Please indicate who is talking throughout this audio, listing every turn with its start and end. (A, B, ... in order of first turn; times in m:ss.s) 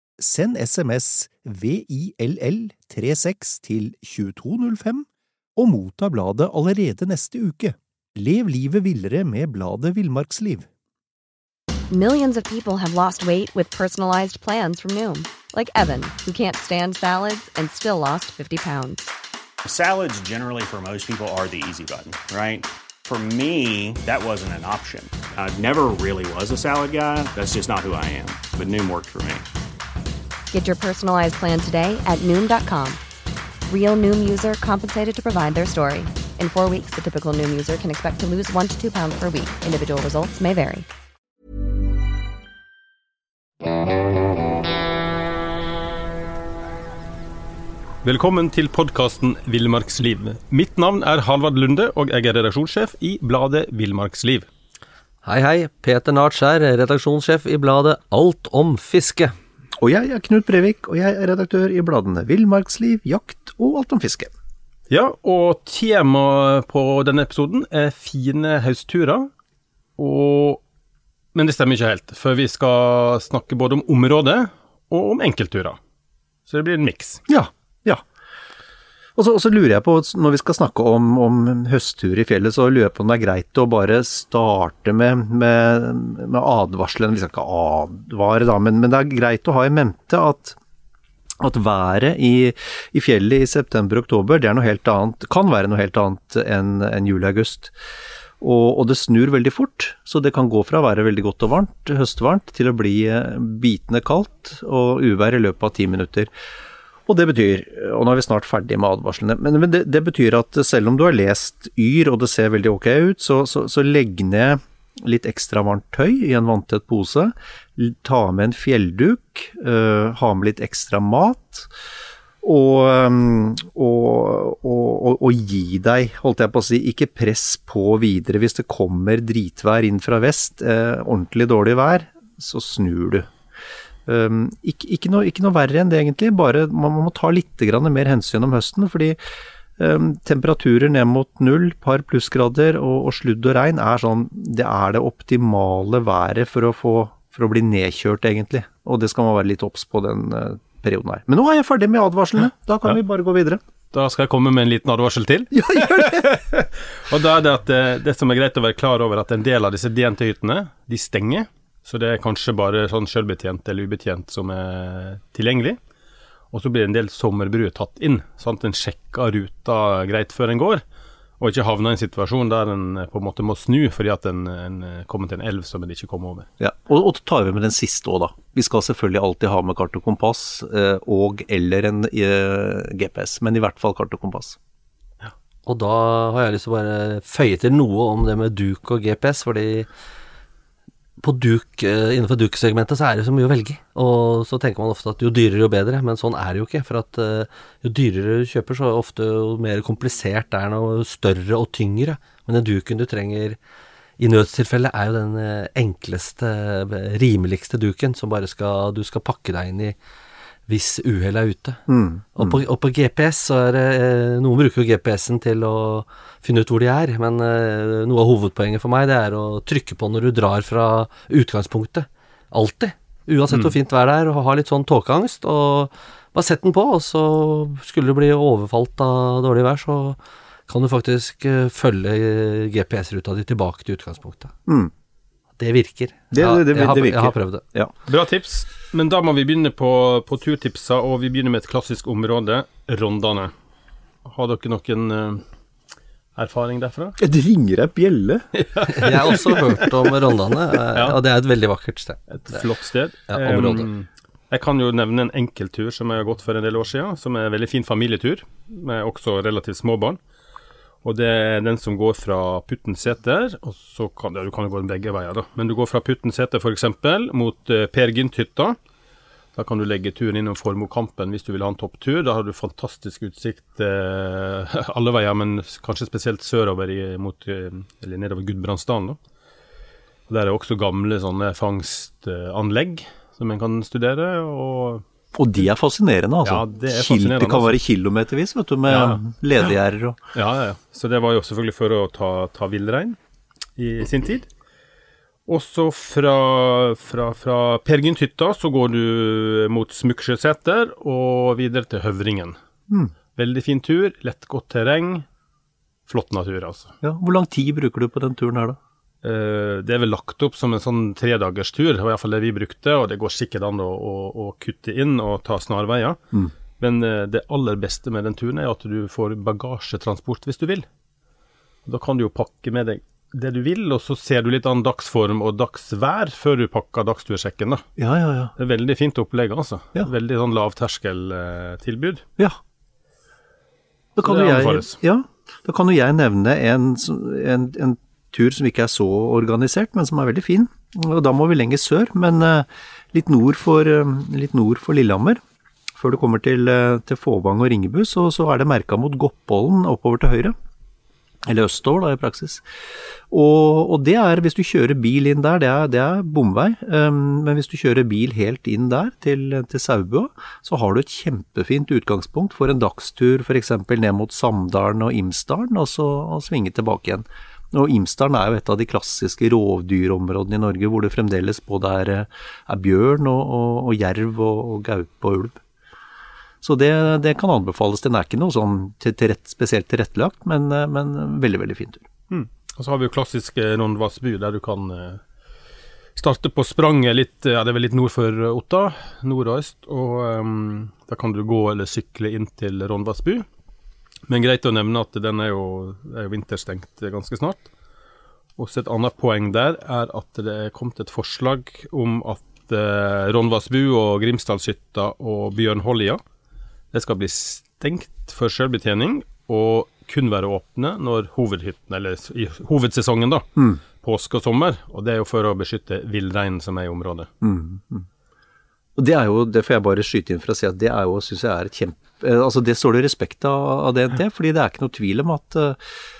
0:00.2-0:10.7 A
0:11.9-0:19.1 B
0:19.6-0:29.4 C
0:30.5-0:33.0 B
0:33.7-0:40.9 B
0:48.0-0:54.5 D
0:55.2-0:59.3 E
0:59.8-1:04.3 A
1:04.9-1:09.3 D
1:10.0-1:10.6 D
1:11.3-1:15.8 D
1:16.5-1:17.2 D
1:17.3-1:18.0 A
1:19.2-1:30.6 A
1:31.4-1:37.7 A
1:38.4-1:46.3 A
1:47.0-2:01.7 A
2:02.4-2:13.3 A
2:14.0-2:19.2 A
2:19.8-2:33.6 A
2:33.9-2:45.8 D
2:35.5-2:36.4 A
2:46.5-2:50.8 D
2:51.4-2:56.5 D
2:56.6-3:04.6 A
3:05.6-3:09.9 E
3:11.2-3:23.6 E
3:24.2-3:30.0 E
3:30.7-3:31.8 E
3:31.9-3:32.6 A
3:32.3-3:54.5 E
3:54.7-3:54.9 A
3:55.6-3:57.6 E
3:56.3-3:57.9 A
3:58.1-4:03.5 D
4:04.2-4:05.4 D
4:06.4-4:07.2 D
4:07.2-4:08.5 A
4:08.5-4:10.1 D
4:08.9-4:12.6 E
4:10.9-4:11.2 D
4:12.3-4:20.2 D
4:13.3-4:13.9 E
4:21.0-4:28.8 D
4:29.6-4:39.2 D
4:40.3-4:45.0 D
4:45.3-4:50.2 A
4:46.4-4:47.8 D
4:48.9-4:49.2 D
4:50.3-4:53.2 D
4:53.8-4:54.5 D
4:55.5-5:02.6 D
5:03.4-5:05.2 D
5:06.1-5:06.9 D
5:07.0-5:08.8 A
5:09.2-5:16.2 D
5:16.8-5:20.9 D
5:21.8-5:27.8 D
5:28.0-5:28.5 A
5:28.6-5:32.2 D
5:34.2-5:45.4 A
5:34.2-5:35.0 D
5:46.0-5:50.5 A
5:51.4-5:52.6 A
5:53.3-6:15.6 A
6:16.6-6:22.0 A
6:22.3-6:25.2 D
6:26.2-6:33.4 D
6:34.3-6:37.7 D
6:38.6-6:46.2 D
6:46.9-6:57.3 D
6:57.4-6:58.0 A
6:59.0-7:05.8 A